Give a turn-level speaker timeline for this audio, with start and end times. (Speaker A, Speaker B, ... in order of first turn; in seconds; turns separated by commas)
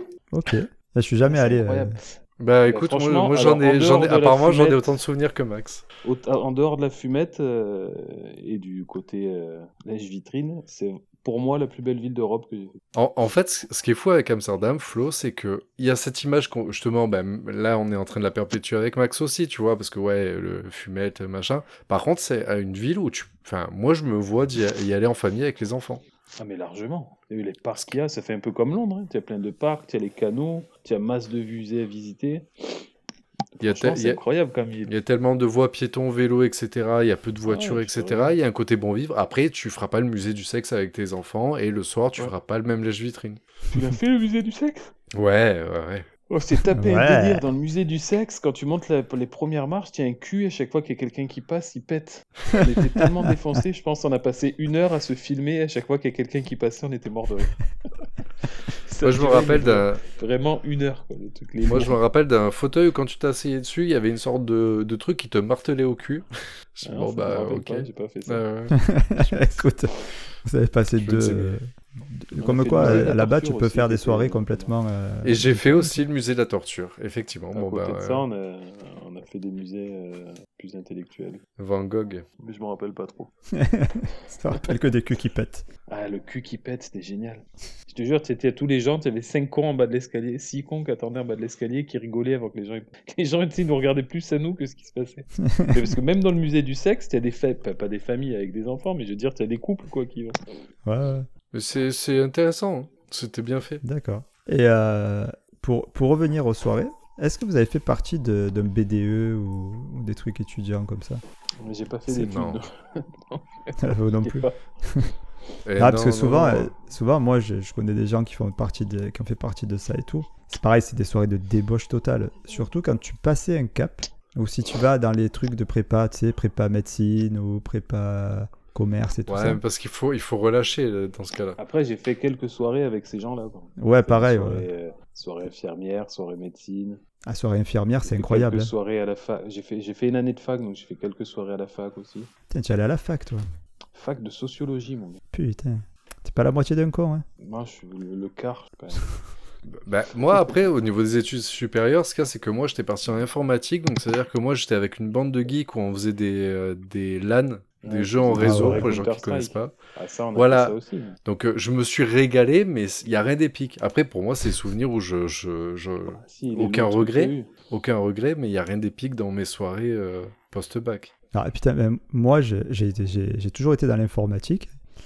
Speaker A: 0.3-2.0, Speaker B: 1.3-2.2, Speaker C: 2.4-5.8, Speaker B: 2.7-5.0, Speaker B: 6.0-12.8, Speaker C: 12.9-26.0, Speaker B: 26.4-32.9, Speaker B: 33.6-34.9, Speaker C: 33.6-34.2, Speaker C: 34.9-43.4, Speaker B: 37.5-38.3, Speaker B: 43.7-44.9, Speaker C: 45.1-46.1, Speaker B: 46.3-57.6, Speaker A: 46.8-47.4, Speaker B: 58.4-62.0, Speaker C: 59.0-60.0, Speaker C: 61.6-68.8, Speaker B: 66.8-68.4, Speaker A: 68.7-76.0, Speaker C: 71.0-71.6, Speaker B: 72.4-74.7, Speaker C: 72.8-73.1, Speaker C: 75.2-78.2, Speaker B: 77.5-81.4, Speaker C: 81.6-82.3, Speaker B: 82.4-83.3, Speaker A: 83.5-85.7, Speaker B: 85.9-100.4, Speaker A: 95.4-95.8, Speaker A: 100.8-101.3, Speaker C: 101.5-103.8, Speaker A: 103.8-111.2, Speaker B: 111.6-114.5, Speaker C: 112.1-112.6, Speaker A: 113.8-115.1, Speaker C: 115.7-116.7, Speaker A: 115.8-129.6, Speaker C: 129.3-131.6, Speaker B: 131.6-137.0, Speaker A: 133.8-134.7, Speaker A: 137.3-138.7, Speaker B: 138.1-142.3, Speaker A: 142.5-143.4, Speaker B: 143.9-145.2, Speaker A: 145.3-147.2, Speaker B: 147.4-149.2, Speaker C: 149.7-159.8, Speaker B: 157.8-161.2, Speaker A: 158.4-158.9, Speaker C: 160.3-171.1, Speaker B: 166.2-167.5, Speaker A: 171.3-174.7